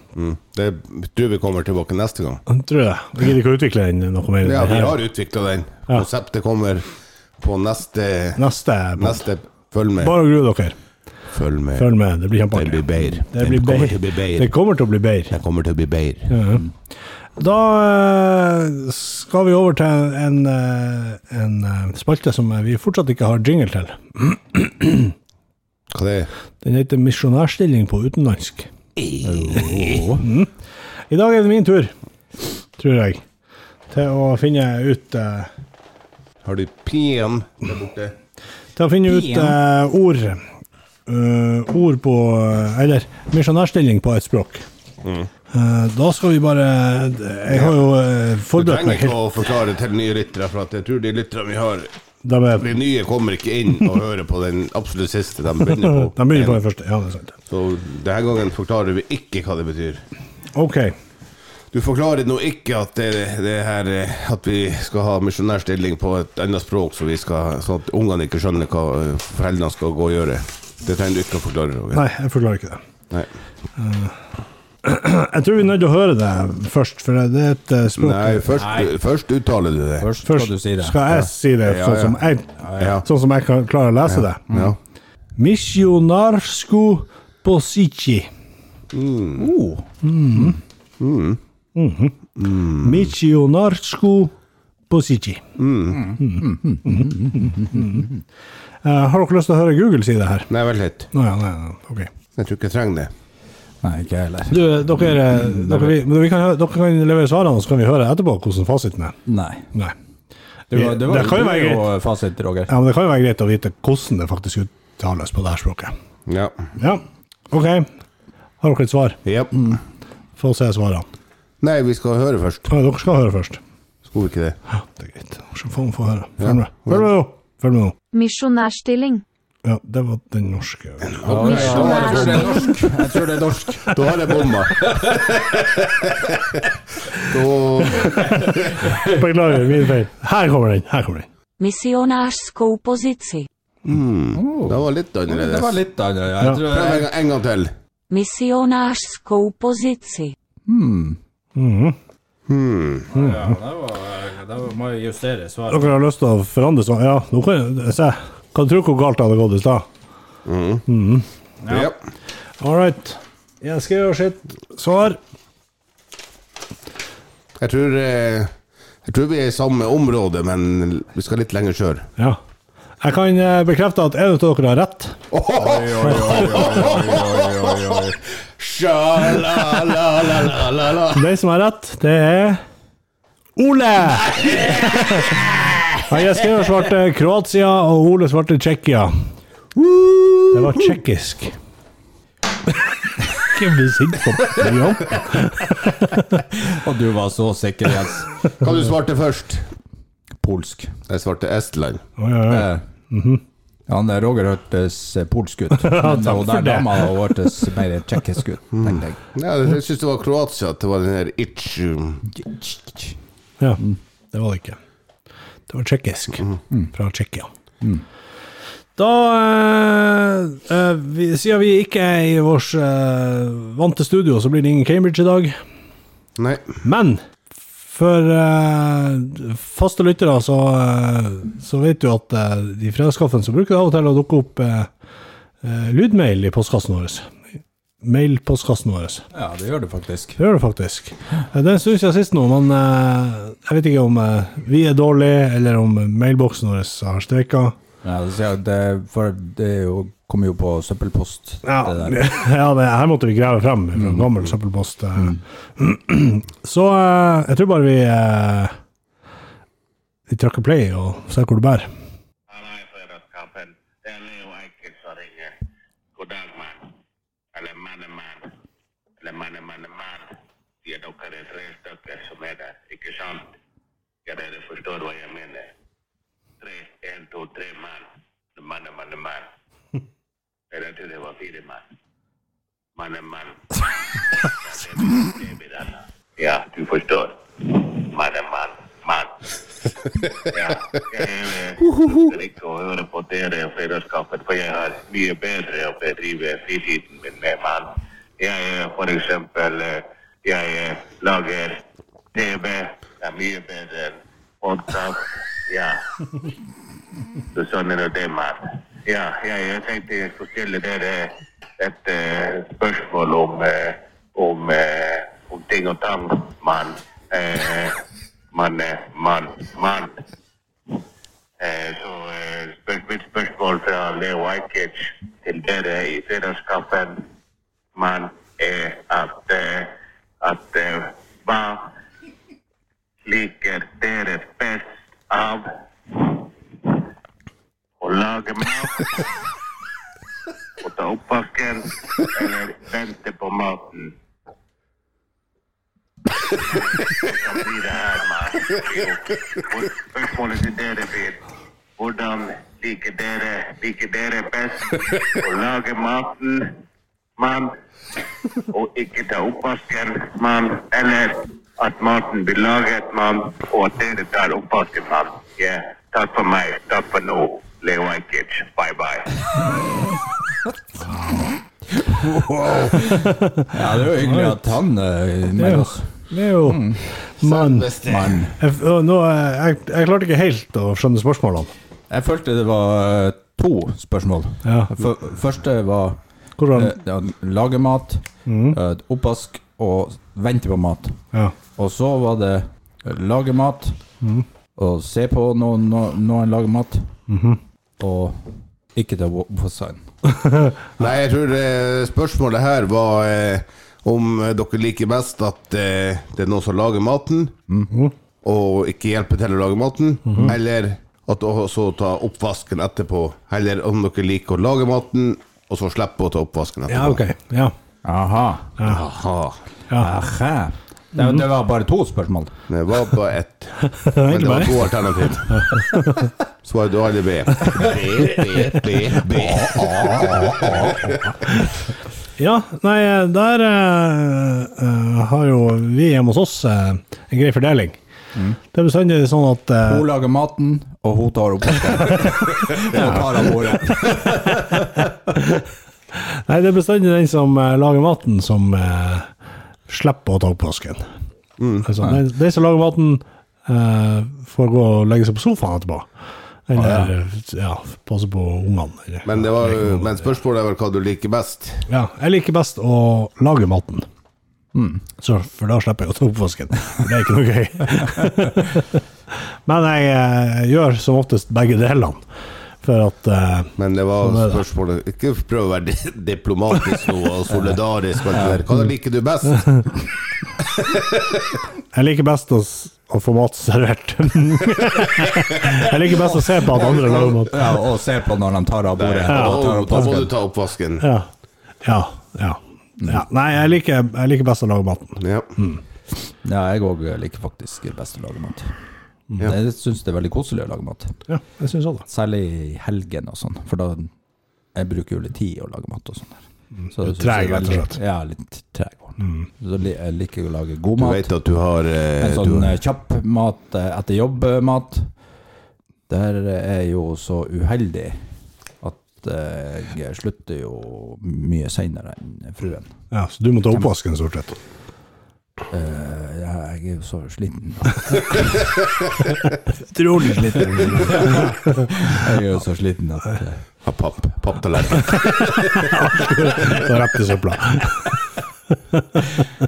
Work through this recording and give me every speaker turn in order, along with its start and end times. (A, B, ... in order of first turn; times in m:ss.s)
0:00.1-0:02.4 A
0:02.5-0:05.0 B
0:04.4-0:06.8 A
0:07.4-0:08.4 A
0:08.4-0:09.2 B
0:09.0-0:10.2 A
0:10.0-0:10.7 B
0:11.3-0:11.9 A
0:11.8-0:15.4 B
0:12.5-0:14.5 A
0:15.3-0:16.4 A
0:16.3-0:16.6 B
0:17.4-0:25.1 B
0:25.9-0:26.3 A
0:26.6-0:28.7 B
0:29.0-0:29.6 A
0:29.2-0:30.3 C
0:30.2-0:30.5 B
0:31.1-0:31.9 B
0:32.8-0:33.2 B
0:33.9-0:35.5 B
0:36.4-0:38.1 A
0:38.8-0:40.4 B
0:39.2-0:39.5 C
0:41.1-0:44.6 B
0:45.0-0:45.3 A
0:45.5-0:49.2 B
0:47.5-0:47.8 A
0:48.5-0:51.9 A
0:52.2-0:52.7 B
0:52.6-0:56.6 A
0:55.8-0:57.3 B
0:57.5-1:00.0 A
1:00.5-1:00.9 B
1:01.7-1:12.0 A
1:11.9-1:12.8 B
1:13.8-1:14.1 B
1:14.8-1:18.5 B
1:18.0-1:20.1 A
1:18.5-1:18.9 C
1:20.0-1:21.0 C
1:20.2-1:24.4 B
1:21.1-1:22.2 A
1:22.6-1:22.9 C
1:22.8-1:23.0 A
1:24.1-1:24.8 A
1:25.4-1:28.3 B
1:28.9-1:29.5 A
1:29.4-1:30.5 C
1:30.0-1:30.6 B
1:31.0-1:31.4 A
1:31.8-1:34.3 B
1:32.4-1:33.1 A
1:34.9-1:35.4 B
1:35.6-1:36.1 A
1:35.9-1:38.2 C
1:36.2-1:38.1 B
1:38.8-1:40.5 B
1:40.5-1:41.1 A
1:41.1-1:42.1 B
1:42.4-1:43.1 A
1:43.8-1:46.0 C
1:44.5-1:49.2 B
1:49.2-1:49.7 C
1:50.7-1:52.7 C
1:50.7-1:51.9 B
1:52.7-1:55.9 B
1:56.3-1:56.6 A
1:56.8-1:57.9 B
1:58.6-1:59.2 B
1:59.2-1:59.7 A
2:00.4-2:01.0 B
2:01.6-2:02.7 A
2:02.7-2:03.6 B
2:04.1-2:04.6 A
2:05.0-2:07.9 B
2:06.4-2:07.1 A
2:08.1-2:09.2 D
2:09.6-2:11.2 B
2:11.1-2:12.7 A
2:11.2-2:13.9 C
2:11.5-2:12.7 D
2:13.9-2:16.6 A
2:17.2-2:18.7 A
2:19.0-2:21.3 B
2:21.6-2:23.5 E
2:23.8-2:25.8 A
2:24.3-2:27.1 C
2:26.6-2:27.7 A
2:28.1-2:30.3 E
2:30.7-2:31.2 C
2:31.6-2:32.0 B
2:32.5-2:33.1 A
2:33.1-2:35.9 C
2:33.2-2:33.5 B
2:35.7-2:39.8 B
2:40.4-2:40.8 A
2:40.9-2:41.2 B
2:41.7-2:42.0 A
2:42.6-2:45.2 B
2:47.6-2:48.5 A
2:49.0-2:52.1 A
2:53.0-2:55.2 B
2:55.3-3:01.3 A
2:55.5-2:58.2 C
2:56.0-2:56.7 B
3:01.1-3:02.6 B
3:03.6-3:05.4 B
3:04.4-3:04.7 A
3:06.1-3:09.1 B
3:10.0-3:10.3 A
3:10.5-3:11.5 B
3:13.2-3:16.4 B
3:16.5-3:18.3 C
3:18.6-3:19.7 A
3:20.4-3:20.9 C
3:21.1-3:22.0 A
3:22.2-3:23.4 B
3:22.5-3:22.8 C
3:23.9-3:29.2 C
3:25.8-3:27.1 B
3:28.7-3:32.2 A
3:32.3-3:33.1 C
3:34.3-3:34.8 B
3:35.7-3:37.5 B
3:39.0-3:45.6 B
3:46.4-3:46.8 A
3:46.8-3:47.2 B
3:47.9-3:54.9 B
3:55.6-3:57.3 B
3:58.0-3:59.2 B
3:59.3-4:00.4 C
4:00.4-4:07.7 B
4:08.0-4:12.2 C
4:11.6-4:18.7 B
4:14.0-4:14.3 C
4:20.3-4:21.9 B
4:22.5-4:25.5 F
4:26.2-4:26.9 F
4:27.5-4:28.5 F
4:29.2-4:33.5 F
4:34.2-4:35.7 F
4:36.6-4:39.5 F
4:40.7-4:41.8 F
4:43.0-4:49.3 F
4:50.4-5:01.8 F
5:02.3-5:06.0 F
5:07.5-5:18.0 F
5:18.5-5:20.2 F
5:21.6-5:27.2 F
5:27.9-5:31.9 F
5:33.2-5:37.0 F
5:38.0-5:39.2 F
5:40.8-5:44.1 F
5:46.4-5:51.4 F
5:52.0-5:56.7 F
5:57.4-5:57.7 F
5:58.7-6:09.7 F
6:12.0-6:17.0 C
6:14.2-6:14.6 B
6:15.6-6:17.9 B
6:17.4-6:18.4 A
6:18.0-6:18.6 C
6:18.6-6:21.7 B
6:22.1-6:26.2 C
6:24.6-6:24.9 B
6:26.6-6:26.9 B
6:26.7-6:31.2 C
6:28.4-6:28.8 B
6:31.8-6:34.0 C
6:34.8-6:37.1 C
6:37.3-6:37.6 B
6:38.0-6:40.1 C
6:40.4-6:40.7 B
6:41.0-6:47.5 A
6:48.4-6:57.2 A
6:50.3-6:50.5 B
6:56.9-6:57.7 B
6:58.0-6:58.7 C
6:58.8-6:59.6 A
6:59.9-7:02.5 C
7:01.2-7:01.4 B
7:02.7-7:05.7 A
7:04.0-7:04.7 B
7:05.6-7:06.3 B
7:06.6-7:10.8 A
7:09.3-7:11.2 C
7:12.4-7:18.0 B
7:18.7-7:20.1 B
7:19.8-7:24.7 C
7:22.9-7:24.3 B
7:25.3-7:25.6 B
7:26.1-7:29.3 B
7:29.9-7:31.0 B
7:31.6-7:31.9 A
7:31.8-7:36.1 B
7:36.7-7:40.1 B
7:36.7-7:37.1 C
7:39.2-7:41.8 A
7:41.9-7:44.0 B
7:44.7-7:45.0 C
7:45.2-7:49.0 B
7:49.6-7:52.2 B
7:52.8-7:54.6 B
7:53.8-7:59.9 A
7:58.3-7:58.6 C
8:00.8-8:01.5 A
8:01.9-8:07.6 B
8:06.7-8:07.5 A
8:07.5-8:10.3 C
8:09.0-8:11.1 A
8:09.3-8:10.1 B
8:11.0-8:11.3 B
8:11.8-8:15.8 B
8:15.2-8:15.5 A
8:16.4-8:18.7 C
8:19.4-8:21.1 C
8:21.3-8:22.0 B
8:22.1-8:24.1 C
8:24.7-8:31.3 C
8:26.8-8:28.0 B
8:29.2-8:29.5 B
8:31.0-8:32.8 A
8:32.2-8:35.1 C
8:36.1-8:38.2 C
8:38.8-8:42.9 C
8:43.1-8:44.6 B
8:45.7-8:48.6 C
8:49.9-8:52.2 B
8:51.1-8:53.6 C
8:53.8-8:55.9 A
8:55.7-8:58.2 B